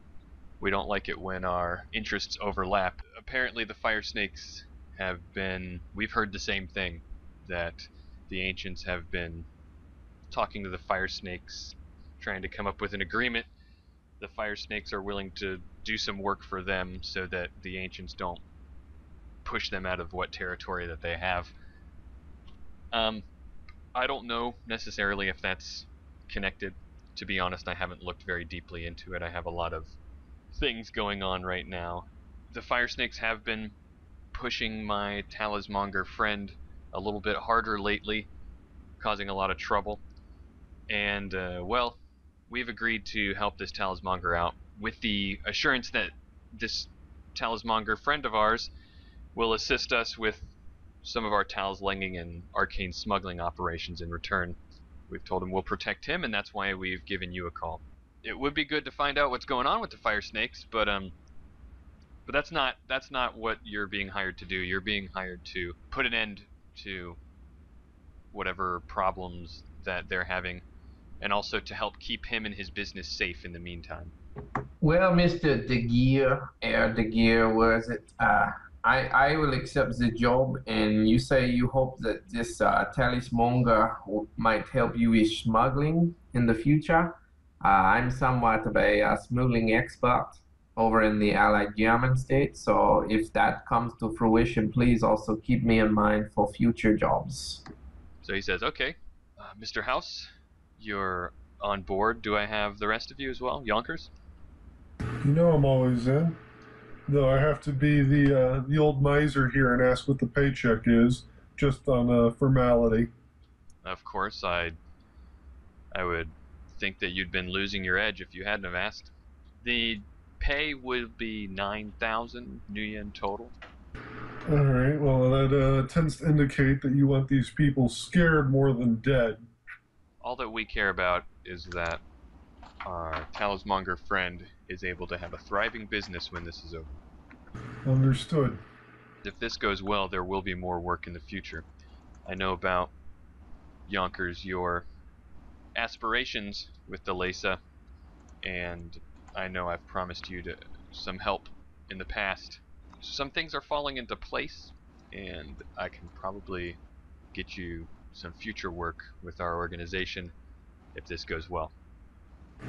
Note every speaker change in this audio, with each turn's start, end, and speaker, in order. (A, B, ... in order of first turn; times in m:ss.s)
0:00.6-0:09.5 A
0:10.3-0:13.5 A
0:14.2-0:18.4 A
0:19.4-0:21.5 A
0:22.9-0:23.3 A
0:23.9-0:30.0 A
0:30.5-0:33.8 A
0:34.3-0:38.3 A
0:39.0-0:40.0 A
0:40.9-0:48.7 A
0:49.4-0:50.5 A
0:51.0-0:54.6 A
0:55.1-1:01.1 A
1:02.3-1:07.2 A
1:08.3-1:10.6 A
1:11.2-1:14.1 A
1:14.8-1:37.6 B
1:38.2-1:44.1 A
1:45.2-1:46.4 C
1:47.1-1:53.1 C
1:53.8-1:54.8 A
1:55.9-2:03.6 A
2:04.5-2:09.5 C
2:10.2-2:12.0 A
2:12.8-2:17.0 A
2:17.8-2:18.6 C
2:19.2-2:21.7 A
2:22.3-2:22.9 A
2:23.9-2:24.9 A
2:25.8-2:27.6 A
2:28.4-2:36.8 A
2:37.3-2:40.3 A
2:40.9-2:41.7 A